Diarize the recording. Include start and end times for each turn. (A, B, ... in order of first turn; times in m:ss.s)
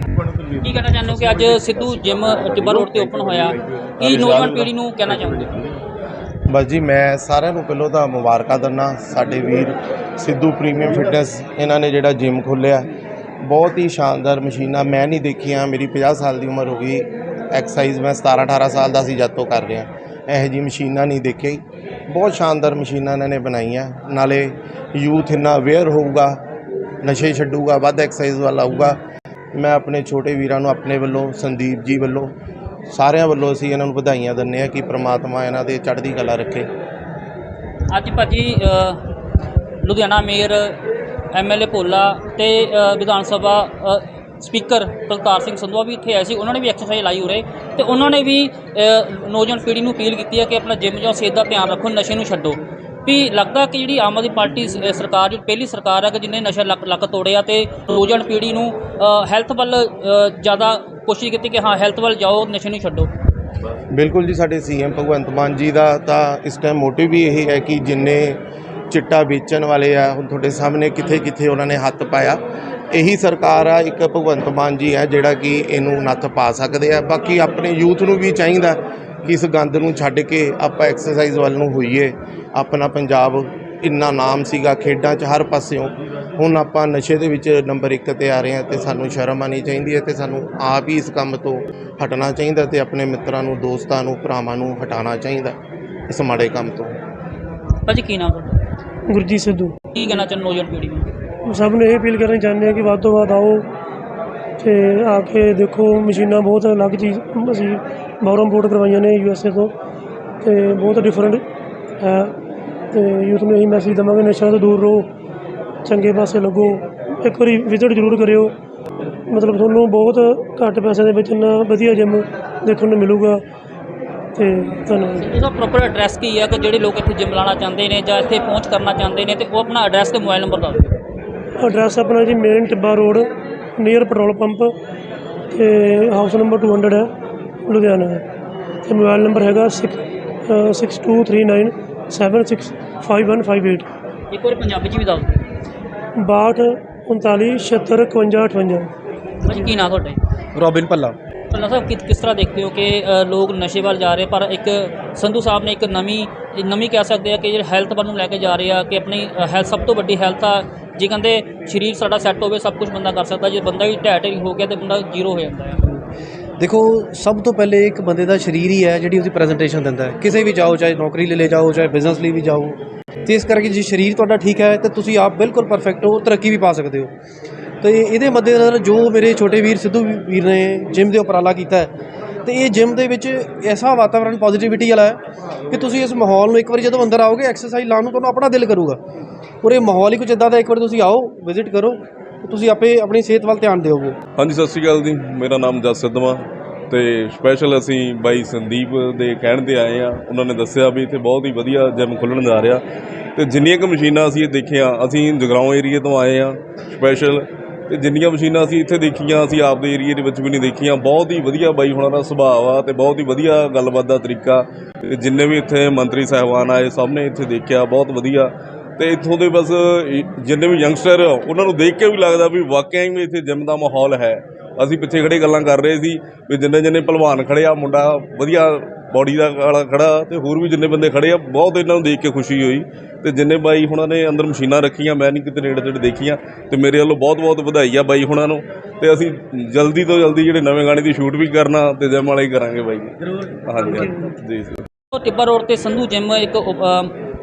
0:00.6-0:05.6 A
0:06.5-0:12.9 B
0:13.4-0:26.4 B
0:27.0-0:29.0 B
0:29.6-0:32.3 B
0:32.9-0:36.7 B
0:37.9-0:39.0 A
0:39.8-0:40.8 A
0:41.3-1:03.1 A
1:03.9-1:08.4 B
1:08.9-1:12.4 B
1:12.9-1:35.6 B
1:36.1-1:36.9 B
1:37.9-1:38.6 A
1:39.1-1:40.0 C
1:39.9-1:41.0 A
1:41.4-1:43.7 C
1:44.6-1:49.7 C
1:50.4-1:51.4 C
1:52.0-1:52.3 C
1:52.9-1:55.1 C
1:55.8-1:58.5 C
1:59.3-2:03.4 C
2:04.4-2:05.4 C
2:05.2-2:10.9 A
2:11.6-2:14.7 C
2:15.5-2:17.1 C
2:17.6-2:18.2 C
2:18.8-2:23.8 C
2:24.3-2:25.4 A
2:26.2-2:28.9 C
2:29.4-2:30.2 A
2:30.6-2:31.2 D
2:31.5-2:45.8 A
2:46.6-2:57.1 D
2:57.8-3:01.9 D
3:02.4-3:09.0 D
3:09.6-3:14.2 D
3:14.4-3:22.8 E
3:23.4-4:04.8 E
4:05.1-4:07.1 A